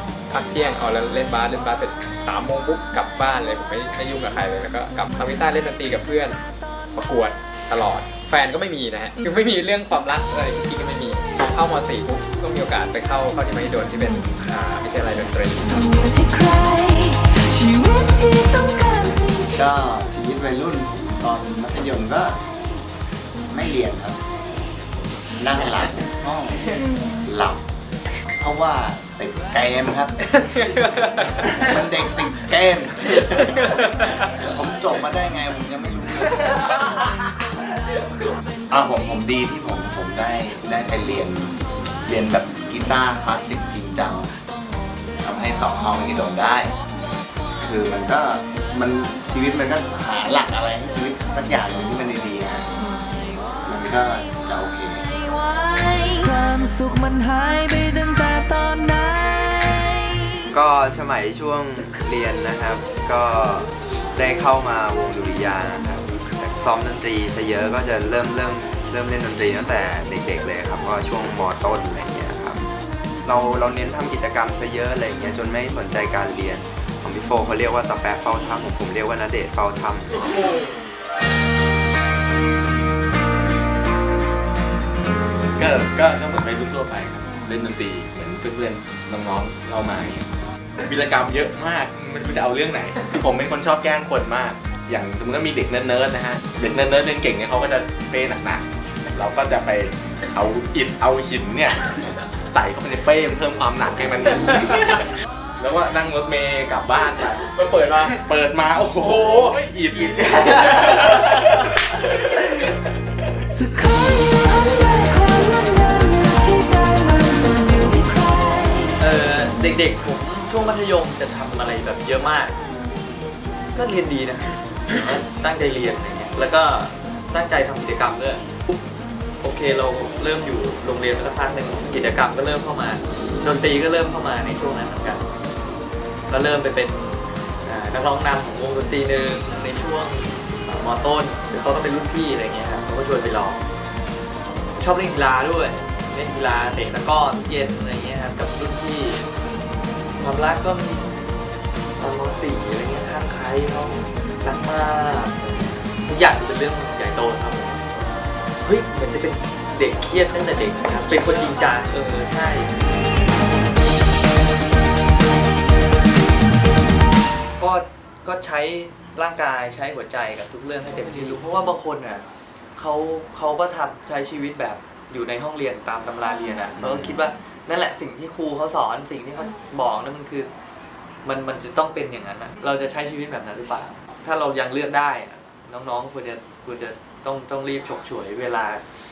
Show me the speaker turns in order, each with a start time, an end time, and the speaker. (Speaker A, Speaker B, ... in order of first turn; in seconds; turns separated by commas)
Speaker A: 0.3-6.4, Speaker A: 7.0-15.9, Speaker B: 15.7-19.5, Speaker C: 19.5-22.4, Speaker C: 23.5-24.2, Speaker C: 25.4-27.6, Speaker C: 28.4-30.4, Speaker C: 31.4-37.1, Speaker C: 38.7-44.3, Speaker C: 45.2-46.8, Speaker C: 47.6-52.7, Speaker C: 53.6-55.0, Speaker B: 55.1-60.5, Speaker D: 60.5-72.7, Speaker D: 73.2-80.4, Speaker E: 85.5-90.3, Speaker E: 90.8-105.0, Speaker E: 105.6-112.0, Speaker A: 107.5-108.1, Speaker A: 109.0-109.6, Speaker B: 113.5-119.0, Speaker F: 119.0-122.6, Speaker F: 123.7-128.8, Speaker F: 129.4-135.2, Speaker F: 136.3-143.6, Speaker F: 144.8-149.2, Speaker F: 150.2-151.0, Speaker F: 152.0-157.8, Speaker F: 158.6-162.7, Speaker F: 167.6-172.2, Speaker F: 172.8-180.5, Speaker F: 181.2-188.8